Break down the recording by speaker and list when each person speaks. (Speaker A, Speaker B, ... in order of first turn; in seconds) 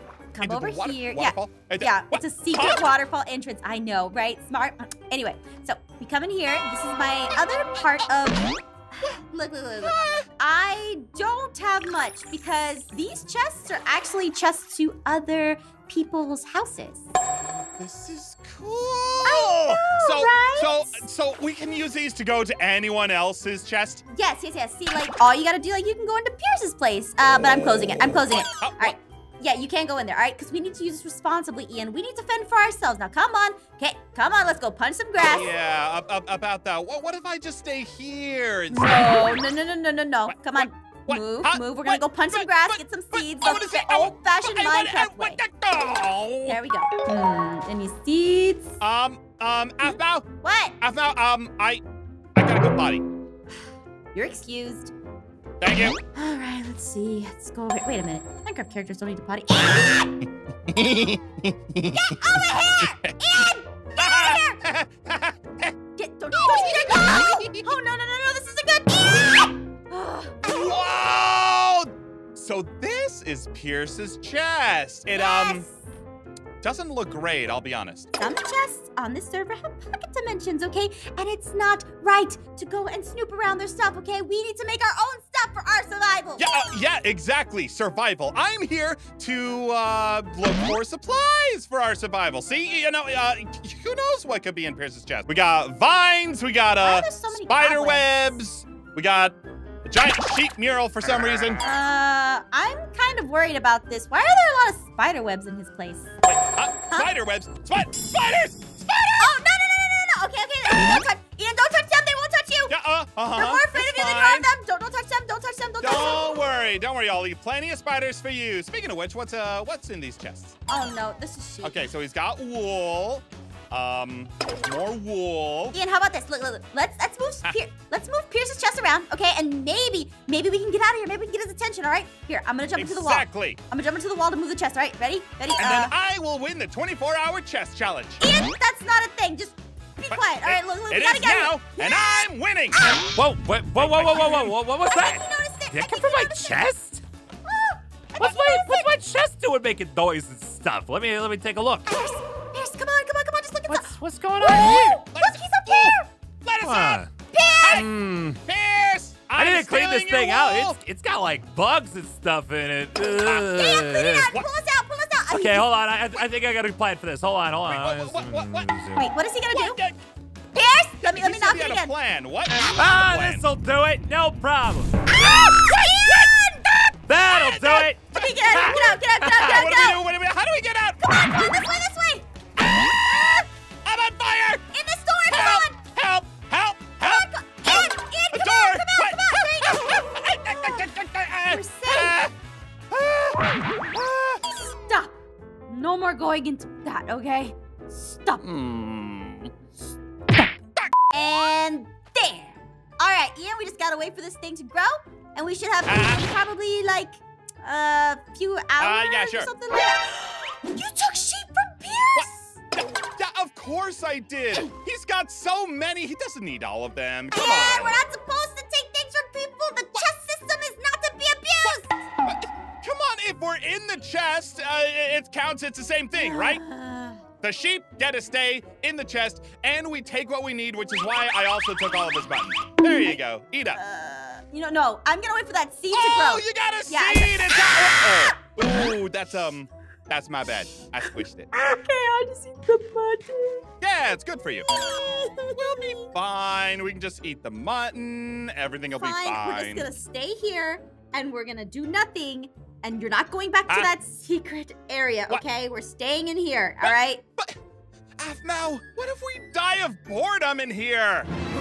Speaker A: 0.3-17.1, 19.2-21.0, 24.1-35.5, 38.7-45.4, 46.5-48.8, 49.8-50.7, 54.1-54.9, 56.1-60.1, 61.9-64.6, 66.0-70.4, 75.1-75.8, 78.2-86.5, 96.8-98.4, 101.6-106.1, 109.2-112.7, 113.3-116.2, 120.7-121.9, 125.7-135.9, 138.2-143.1, 144.8-146.7, 147.4-148.9, 151.8-156.1, 157.3-157.9, 163.2-165.7, 168.9-169.8, 170.5-171.9, 175.1-180.0, 181.0-182.2, 184.7-185.8, 187.0-190.9, 191.4-192.2, 194.9-195.1, 195.7-198.4, 201.1-212.6, 217.3-222.0, 226.1-227.2, 233.7-238.2, 241.5-243.6, 244.7-246.1, 249.0-257.2
Speaker B: 0.4-2.9, 9.8-10.2, 17.8-24.0, 28.6-28.9, 35.2-39.3, 40.3-46.6, 48.8-50.2, 50.8-51.8, 52.4-53.0, 55.6-56.0, 60.7-62.0, 64.0-65.7, 66.4-67.7, 70.4-75.6, 76.6-78.1, 86.4-101.6, 106.2-109.3, 112.7-114.5, 115.8-120.5, 121.6-125.8, 132.8-133.6, 135.6-138.2, 140.1-142.8, 143.8-144.5, 154.6-157.0, 157.6-157.9, 158.4-160.8, 167.6-168.7, 169.5-170.0, 171.0-173.5, 175.3-175.6, 178.2-181.0, 182.6-184.6, 185.3-192.3, 192.9-194.4, 198.4-199.5, 205.8-206.2, 208.8-209.5, 212.1-218.0, 221.6-226.6, 227.4-233.8, 235.9-241.5, 243.8-244.7, 245.7-249.9, 256.8-257.6, 258.2-261.3
Speaker C: 143.1-147.0, 148.2-151.8, 153.7-154.9, 156.6-157.1, 157.7-158.4, 159.3-164.3, 165.3-169.1, 172.6-174.9, 177.1-178.0